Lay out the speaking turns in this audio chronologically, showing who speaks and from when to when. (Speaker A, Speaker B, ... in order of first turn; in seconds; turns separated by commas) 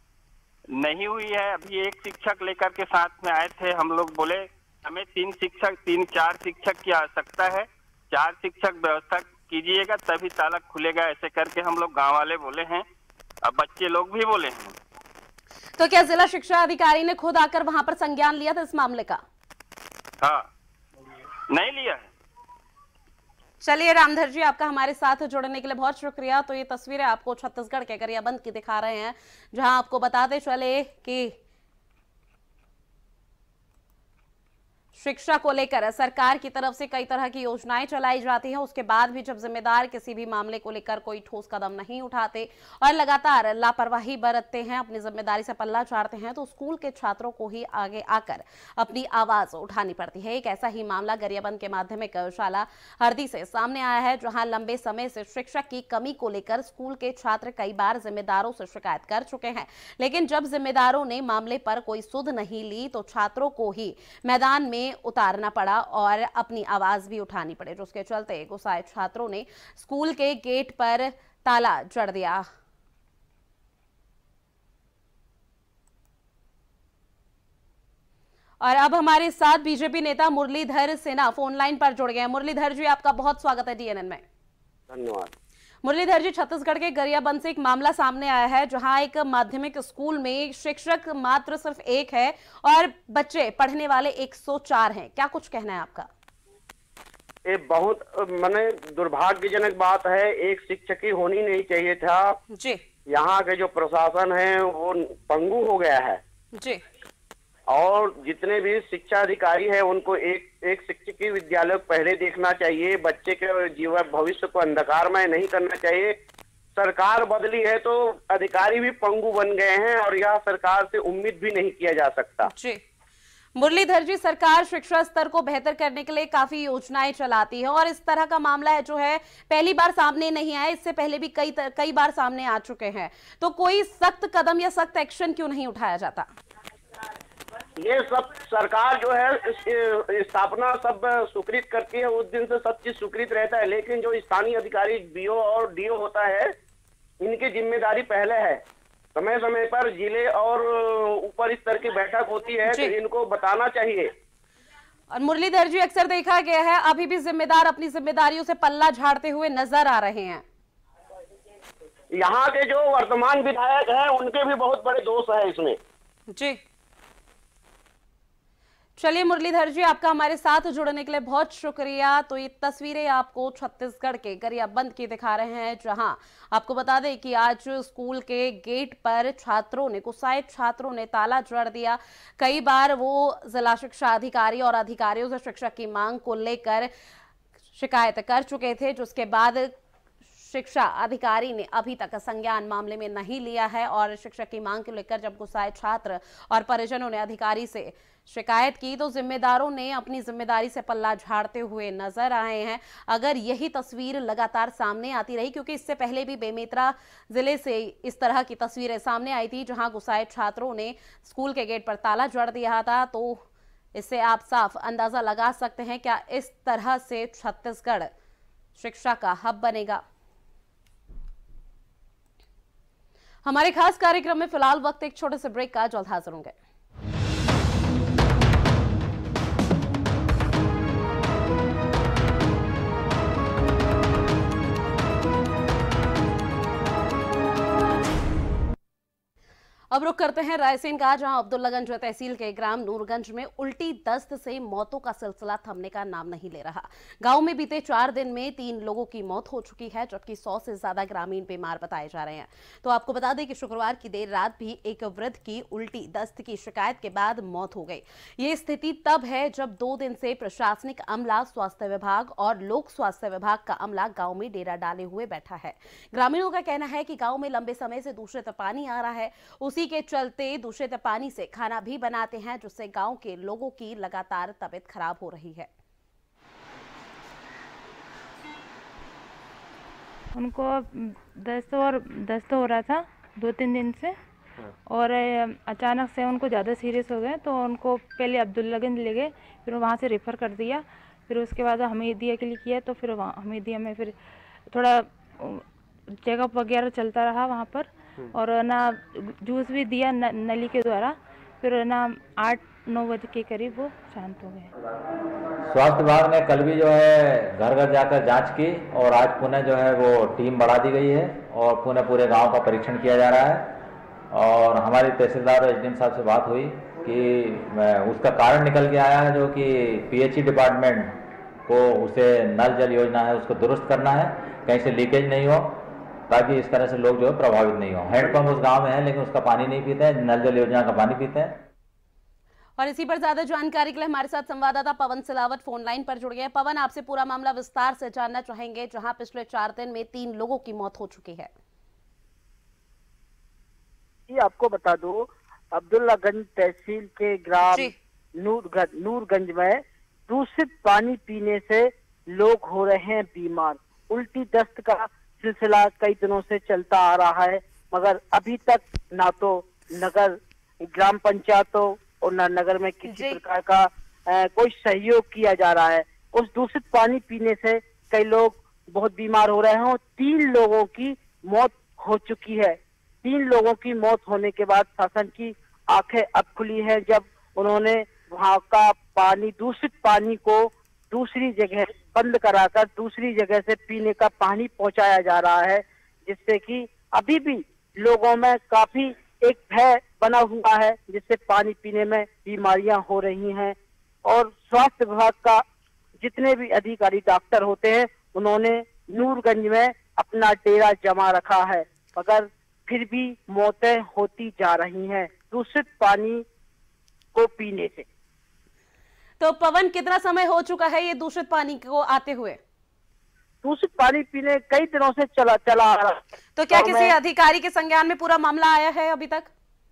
Speaker A: 0.8-12.8, Speaker A: 13.4-14.8, Speaker B: 15.8-19.2, Speaker A: 20.2-20.5, Speaker A: 21.5-22.1, Speaker B: 23.6-31.3, Speaker B: 35.0-72.5, Speaker B: 78.6-84.2, Speaker C: 84.9-85.3, Speaker B: 85.8-96.1, Speaker C: 97.5-102.4, Speaker B: 102.5-102.8, Speaker C: 103.1-106.2, Speaker B: 106.6-106.8, Speaker C: 107.7-116.2, Speaker C: 116.8-122.5, Speaker B: 122.5-122.8, Speaker B: 123.6-136.3, Speaker C: 137.8-146.5, Speaker C: 147.2-148.6, Speaker C: 149.2-154.1, Speaker B: 152.7-152.9, Speaker B: 155.1-160.4, Speaker C: 162.1-165.8, Speaker B: 166.3-166.6, Speaker B: 169.0-186.9, Speaker B: 187.8-189.7, Speaker B: 190.4-213.4, Speaker B: 213.9-218.1, Speaker B: 218.8-220.0, Speaker B: 223.4-226.6, Speaker B: 239.9-275.7, Speaker D: 280.3-284.2, Speaker D: 284.9-294.2, Speaker D: 294.7-295.6, Speaker D: 296.2-304.7, Speaker E: 305.6-313.8, Speaker E: 314.3-331.7, Speaker B: 332.8-341.5, Speaker F: 344.3-395.6, Speaker B: 347.7-347.9, Speaker B: 363.1-363.4, Speaker F: 396.2-406.4, Speaker F: 407.4-408.1, Speaker B: 409.4-412.6, Speaker F: 413.6-416.2, Speaker B: 416.6-419.5, Speaker F: 416.7-417.1